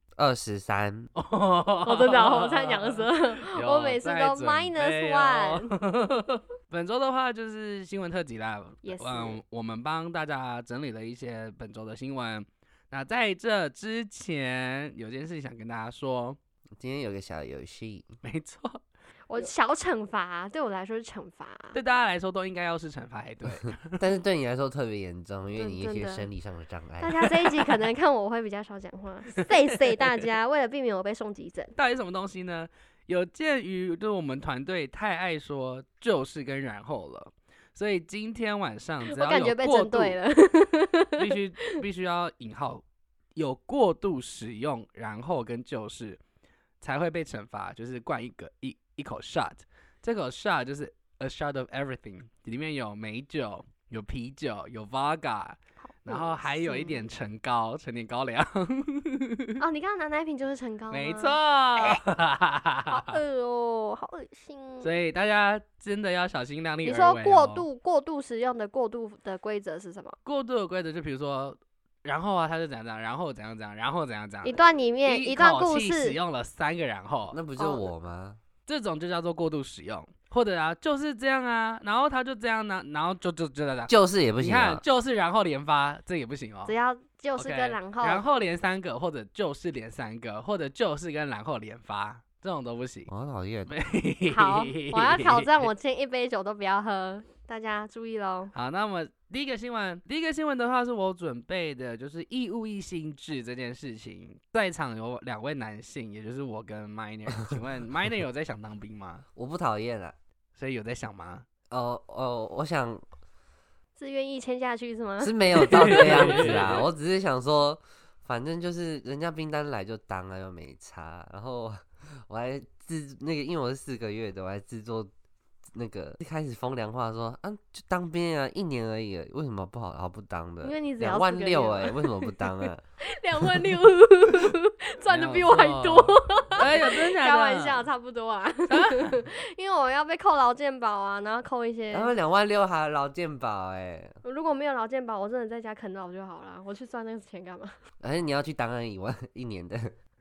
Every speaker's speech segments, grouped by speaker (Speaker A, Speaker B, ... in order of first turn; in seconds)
Speaker A: 0.2-1.1, 16.8-18.1, 23.9-27.8, 77.3-78.4, 83.9-84.8, 93.1-93.7, 109.4-110.1, 111.7-113.0, 115.2-125.1, 125.7-132.8, 141.9-144.2, 148.0-149.9
Speaker B: 1.2-16.4, 18.2-18.8, 21.7-24.0, 29.4-30.0, 31.8-40.2, 41.2-42.8, 43.4-46.2, 46.8-59.6, 60.9-63.2, 64.8-67.6, 70.2-77.4, 78.7-86.7, 87.4-93.1, 93.7-95.7, 98.5-109.2, 110.6-111.5, 115.7-116.8, 135.1-137.8, 138.7-139.2
Speaker C: 1.8-5.7, 8.8-9.4, 19.3-21.8, 25.6-26.3, 27.0-31.7, 39.1-41.8, 55.8-57.1, 59.6-62.0, 62.9-64.9, 66.8-70.2, 74.4-76.2, 77.6-77.9, 86.7-88.2, 94.3-98.5, 114.0-116.6, 130.6-142.1, 144.2-147.8